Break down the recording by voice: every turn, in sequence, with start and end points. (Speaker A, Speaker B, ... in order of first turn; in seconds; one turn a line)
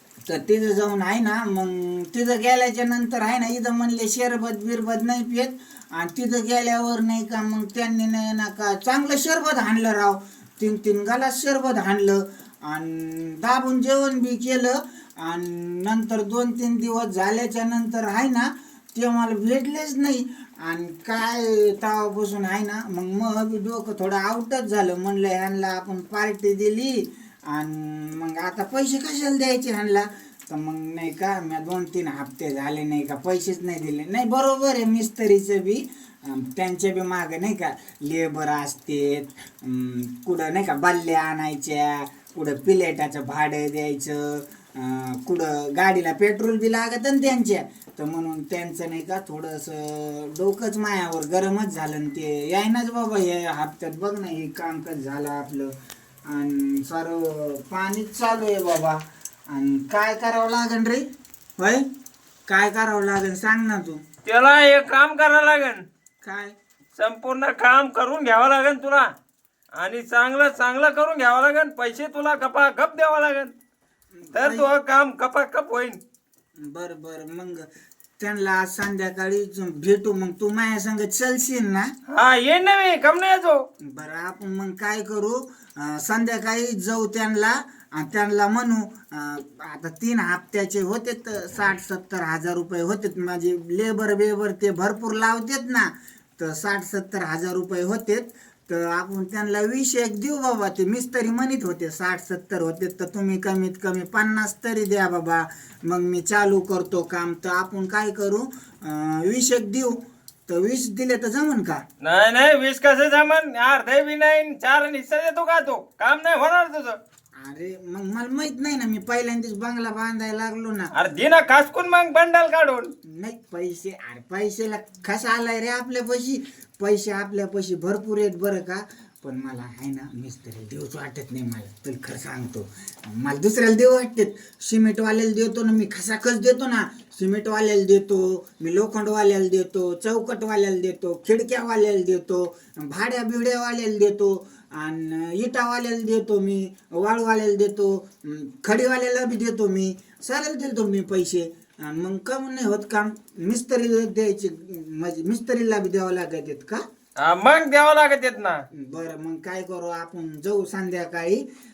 Speaker A: 0.3-55.7
Speaker A: 56.3-59.0
Speaker A: 59.5-61.0
Speaker A: 61.6-61.8
Speaker A: 62.5-64.0
Speaker B: 64.2-65.8
Speaker A: 66.2-66.5
Speaker B: 67.0-69.1
Speaker B: 69.8-73.5
Speaker A: 74.1-74.7
Speaker B: 74.3-76.0
Speaker A: 76.6-77.6
Speaker A: 78.2-81.9
Speaker B: 82.1-83.6
Speaker A: 83.8-110.0
Speaker A: 110.5-111.8
Speaker B: 112.0-117.0
Speaker A: 117.4-120.9
Speaker B: 120.9-122.9
Speaker A: 123.0-156.8
Speaker B: 157.2-158.6
Speaker A: 158.7-161.4